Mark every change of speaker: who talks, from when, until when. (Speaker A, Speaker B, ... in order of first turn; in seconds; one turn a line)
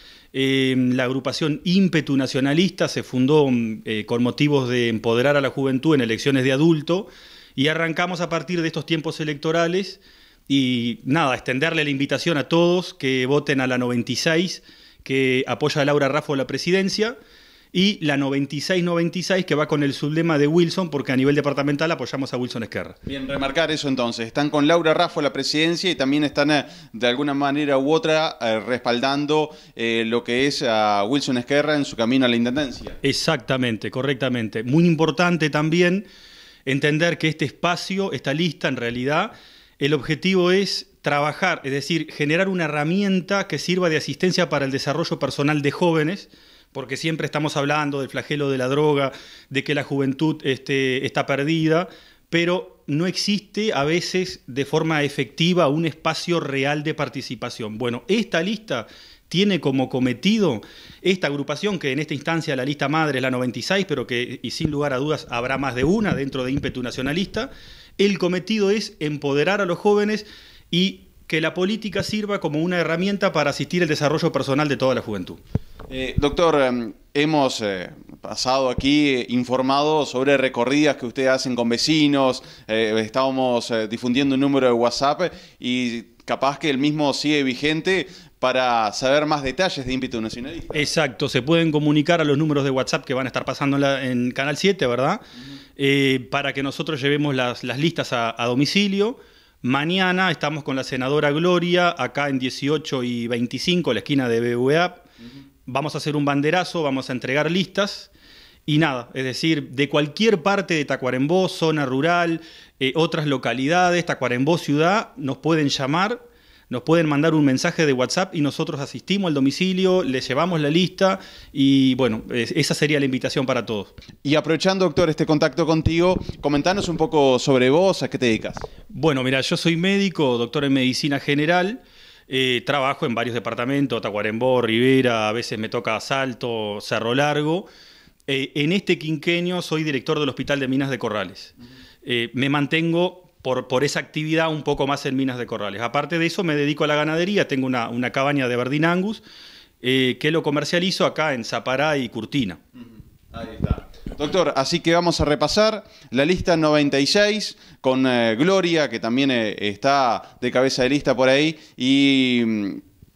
Speaker A: 0.3-17.1
Speaker A: 17.7-23.0
Speaker B: 23.1-33.0
Speaker A: 33.0-36.0
Speaker A: 36.6-75.4
Speaker B: 75.9-90.9
Speaker A: 90.7-95.2
Speaker A: 95.8-105.0
Speaker A: 105.7-108.1
Speaker A: 108.7-123.9
Speaker B: 124.2-128.6
Speaker A: 128.9-137.7
Speaker A: 138.3-141.5
Speaker A: 142.0-149.2
Speaker A: 149.8-152.6
Speaker B: 152.8-162.8